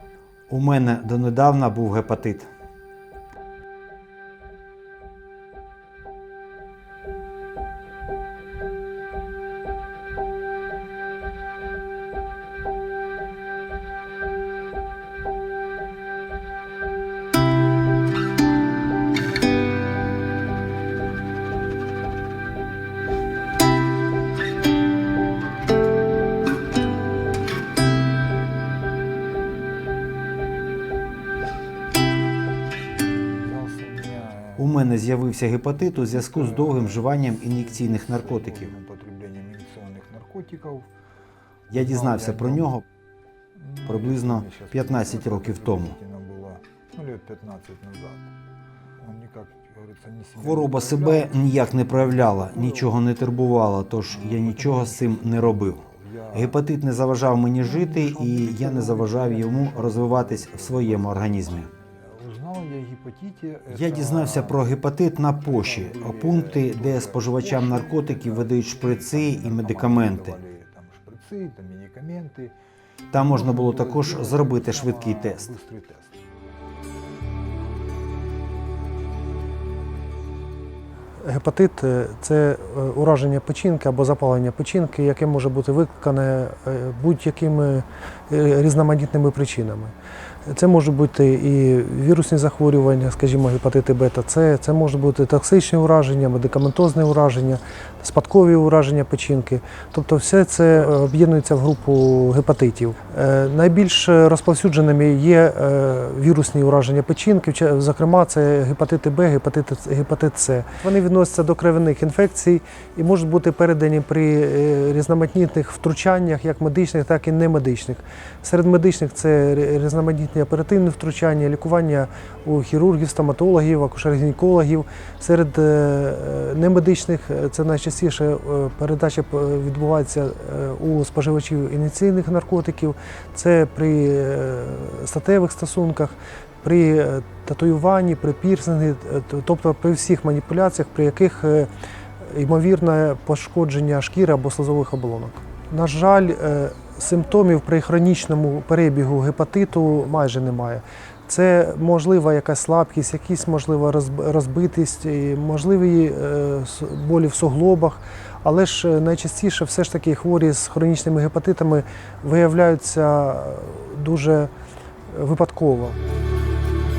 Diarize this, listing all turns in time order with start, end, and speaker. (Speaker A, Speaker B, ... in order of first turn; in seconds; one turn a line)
Speaker A: 0.5-2.5
Speaker B: 33.3-34.7
Speaker A: 34.6-38.8
Speaker B: 36.1-40.9
Speaker B: 41.7-42.7
Speaker A: 41.7-42.8
Speaker B: 43.5-48.3
Speaker A: 43.9-46.0
Speaker B: 49.0-51.4
Speaker A: 50.4-61.7
Speaker B: 52.0-52.9
Speaker B: 54.1-56.6
Speaker B: 57.6-64.7
Speaker A: 63.7-70.4
Speaker B: 65.5-72.5
Speaker A: 73.1-75.5
Speaker B: 73.1-76.2
Speaker C: 81.2-90.0
Speaker C: 90.5-141.7
Speaker C: 142.2-164.5
Speaker C: 165.1-166.0